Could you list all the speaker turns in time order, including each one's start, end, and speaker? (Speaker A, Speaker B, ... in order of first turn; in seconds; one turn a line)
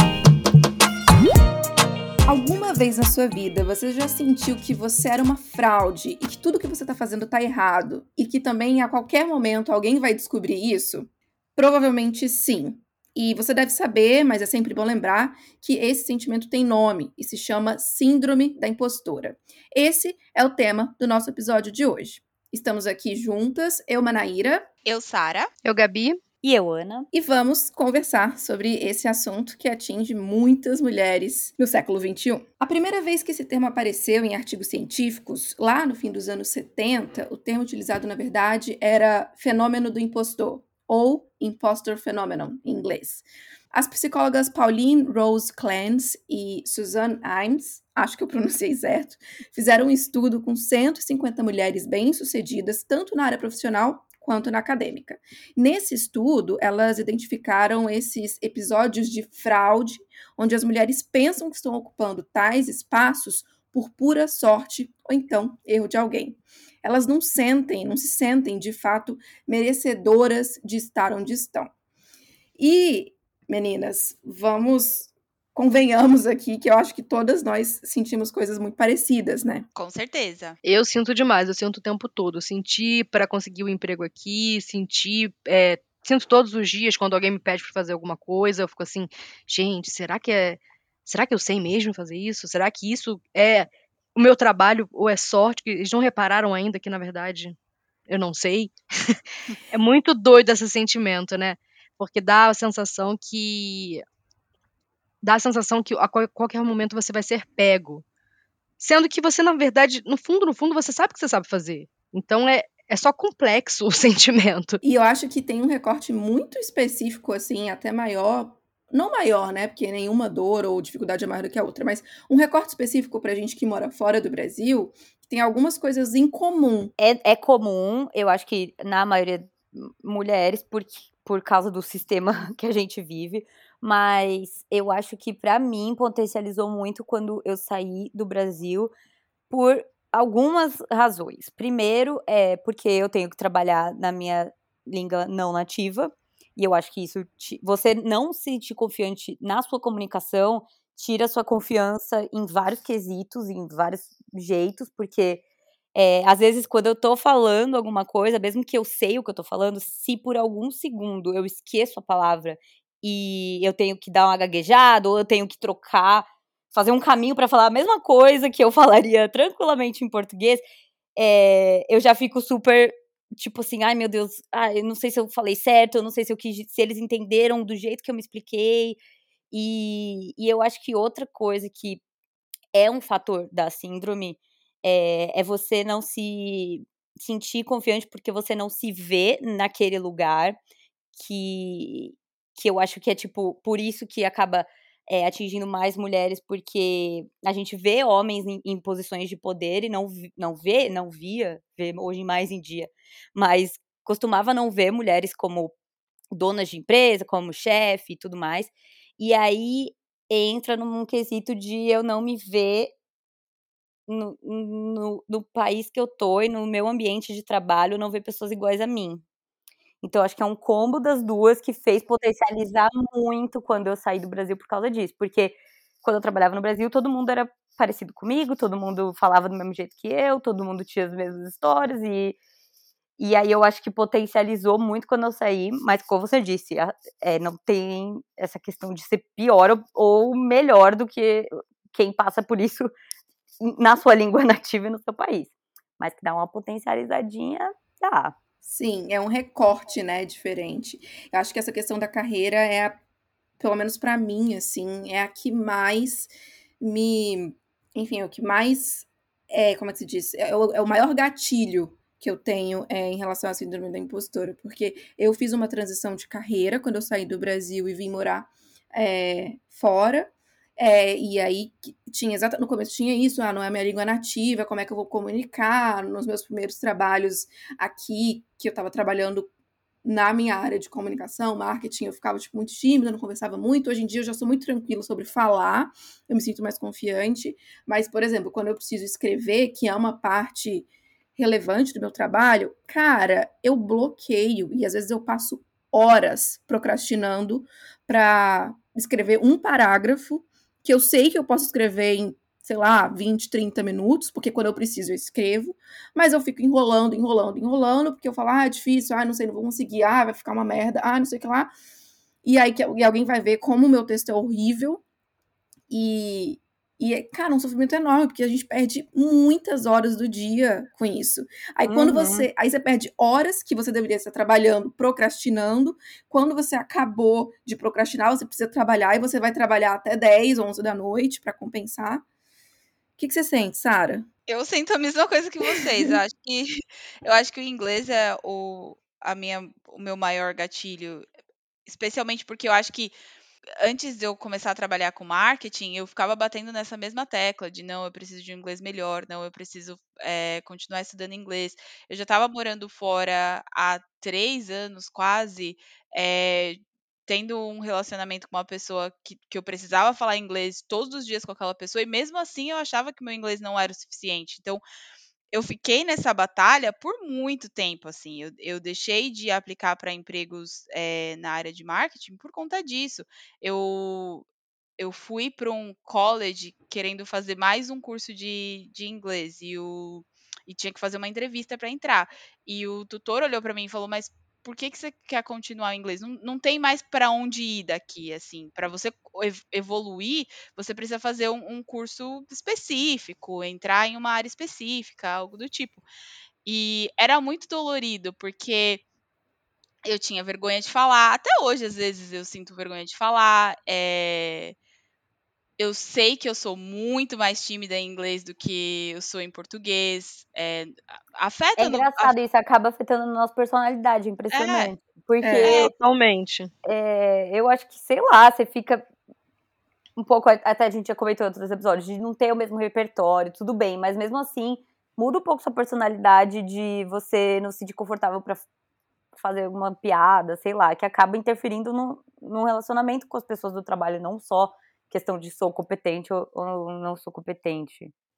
Speaker A: 2.2-24.7
Speaker B: 24.9-25.5
Speaker C: 25.6-26.2
Speaker D: 26.4-27.1
Speaker A: 27.1-71.7
Speaker A: 72.6-79.7
Speaker B: 79.7-80.6
Speaker C: 80.6-97.5
Speaker C: 98.1-99.2
Speaker C: 99.7-104.0
Speaker C: 105.2-108.0
Speaker C: 108.8-114.8
Speaker A: 114.8-126.9
Speaker D: 127.0-138.9
Speaker D: 139.5-155.4
Speaker D: 155.9-170.6
Speaker D: 171.2-179.0
Speaker D: 179.5-182.0
Speaker D: 182.7-190.6
Speaker D: 191.1-205.7
Speaker D: 206.3-212.9
Speaker D: 214.1-219.2
Speaker D: 220.0-232.4
Speaker D: 233.2-242.9
Speaker D: 243.6-248.3
Speaker A: 248.6-253.0
Speaker A: 253.6-279.5
Speaker A: 280.0-311.7
Speaker A: 312.4-315.0
Speaker A: 315.9-332.2
Speaker D: 321.9-322.5
Speaker A: 333.2-334.3
Speaker B: 334.5-341.2
Speaker B: 341.9-343.1
Speaker B: 343.8-364.8
Speaker B: 365.5-374.4
Speaker B: 375.0-396.0
Speaker B: 396.6-399.0
Speaker B: 400.1-404.8
Speaker B: 405.8-412.3
Speaker D: 411.8-415.9
Speaker B: 414.5-414.9
Speaker A: 415.4-415.7
Speaker B: 415.6-415.9
Speaker C: 415.9-416.7
Speaker D: 416.8-419.1
Speaker D: 420.2-428.6
Speaker D: 429.4-438.1